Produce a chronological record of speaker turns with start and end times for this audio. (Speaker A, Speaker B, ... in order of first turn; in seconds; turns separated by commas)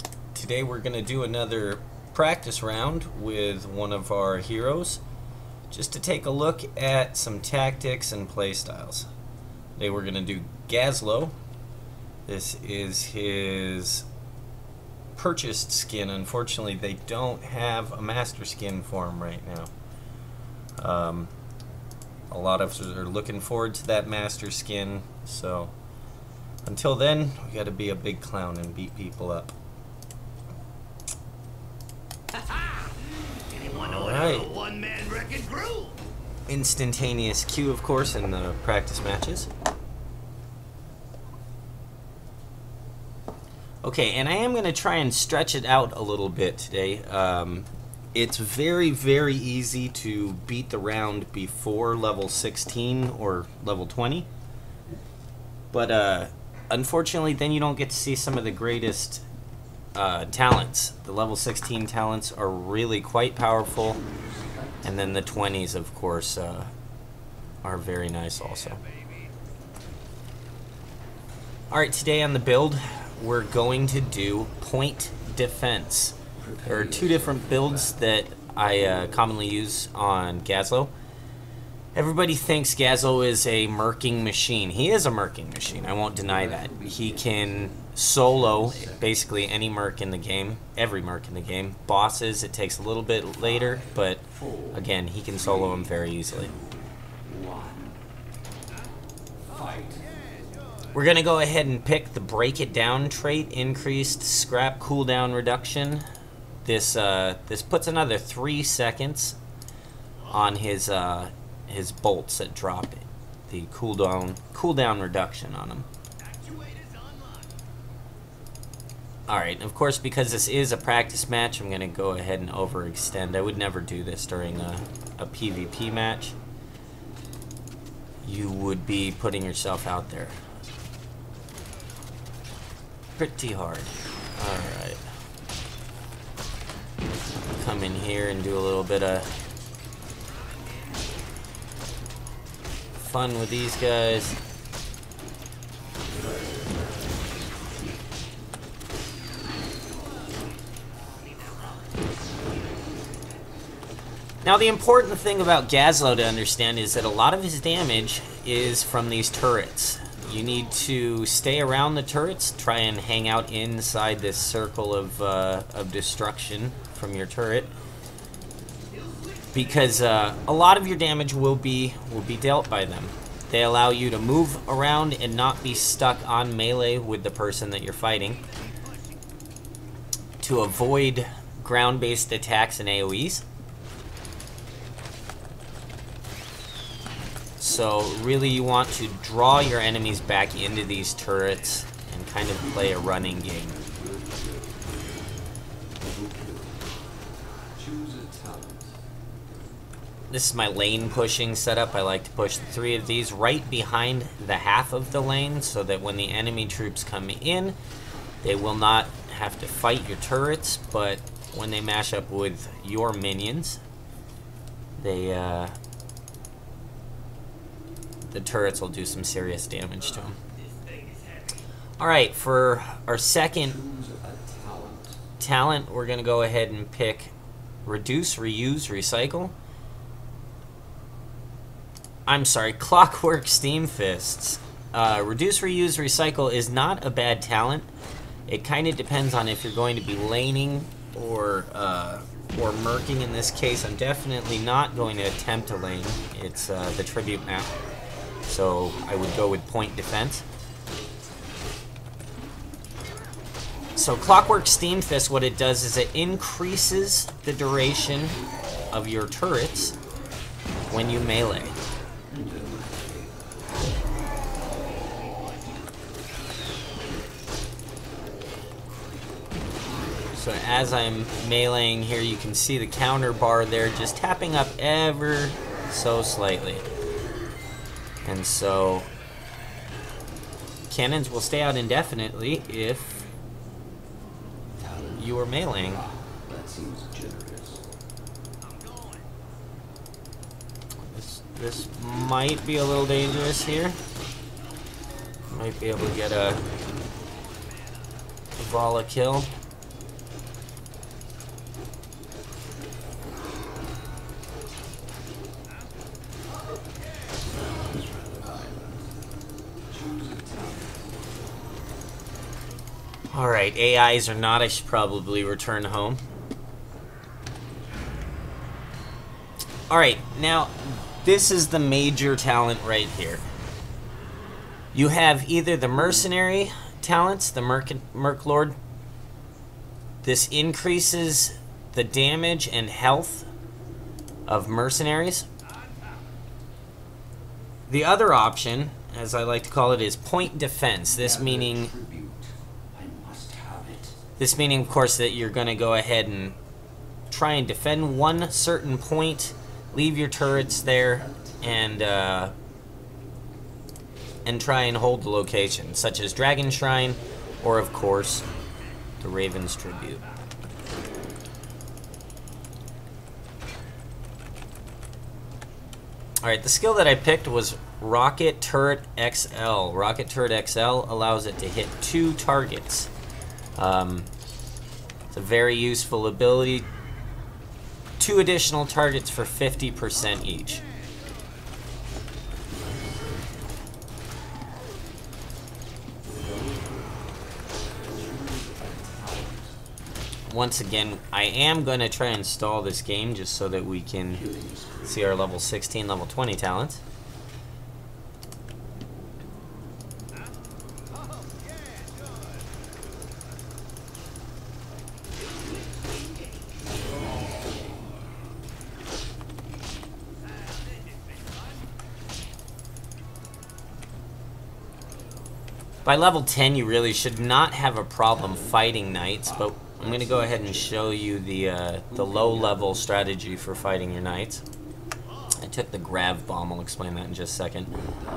Speaker A: 0.3-5.0, Speaker A: 5.7-9.1, Speaker A: 9.8-11.3, Speaker A: 12.3-14.1, Speaker A: 15.2-19.7, Speaker A: 20.8-21.3, Speaker A: 22.3-25.7, Speaker A: 26.6-29.5, Speaker A: 33.6-34.6, Speaker B: 34.6-35.9, Speaker A: 36.5-39.5, Speaker A: 43.8-54.3, Speaker A: 55.7-59.2, Speaker A: 59.9-64.0, Speaker C: 64.0-65.0, Speaker A: 64.8-66.7, Speaker A: 67.6-68.8, Speaker A: 71.7-80.9, Speaker C: 76.4-77.9, Speaker A: 81.9-96.5, Speaker C: 86.2-87.4, Speaker C: 88.3-89.1, Speaker C: 93.4-98.0, Speaker C: 99.5-100.0, Speaker A: 100.9-106.0, Speaker A: 106.6-109.4, Speaker A: 110.3-115.9, Speaker B: 116.6-117.0, Speaker A: 119.3-126.3, Speaker A: 128.2-130.4, Speaker A: 133.2-135.0, Speaker A: 137.6-139.3, Speaker A: 143.0-144.4, Speaker A: 154.4-167.7, Speaker A: 169.5-178.4, Speaker A: 180.4-183.4, Speaker A: 187.6-193.8, Speaker C: 193.7-195.0, Speaker C: 196.0-198.9, Speaker A: 200.3-207.8, Speaker A: 208.4-213.8, Speaker A: 215.0-215.7, Speaker A: 218.3-220.4, Speaker B: 220.9-221.4, Speaker A: 222.0-223.8, Speaker C: 223.6-225.2, Speaker A: 225.4-227.3, Speaker A: 227.8-229.5, Speaker A: 232.3-237.9, Speaker A: 238.5-247.7, Speaker A: 248.4-250.4, Speaker A: 253.9-258.4, Speaker A: 258.9-259.9, Speaker A: 260.9-261.8, Speaker C: 262.3-263.8, Speaker A: 270.3-276.8, Speaker A: 278.2-279.1, Speaker A: 280.9-283.3, Speaker C: 284.8-285.3, Speaker A: 285.2-286.0, Speaker C: 286.0-287.8, Speaker A: 291.0-294.0, Speaker A: 295.5-296.6, Speaker A: 298.6-299.5, Speaker C: 307.6-309.0, Speaker C: 309.9-311.1, Speaker A: 313.3-316.2, Speaker A: 319.9-323.4, Speaker A: 324.9-328.7, Speaker A: 330.2-333.4, Speaker A: 334.5-335.4, Speaker A: 337.9-341.9, Speaker C: 341.1-344.1, Speaker A: 344.4-346.6, Speaker A: 347.3-352.5, Speaker C: 350.6-351.6, Speaker A: 354.4-358.4, Speaker A: 359.2-360.2, Speaker A: 366.4-373.1, Speaker A: 373.7-374.3, Speaker A: 375.3-376.9, Speaker A: 378.2-380.8, Speaker C: 382.7-383.6, Speaker C: 386.4-389.7, Speaker A: 390.5-394.4, Speaker C: 394.3-395.2, Speaker A: 395.0-397.0, Speaker A: 416.0-424.6, Speaker C: 420.0-420.7, Speaker A: 425.6-427.9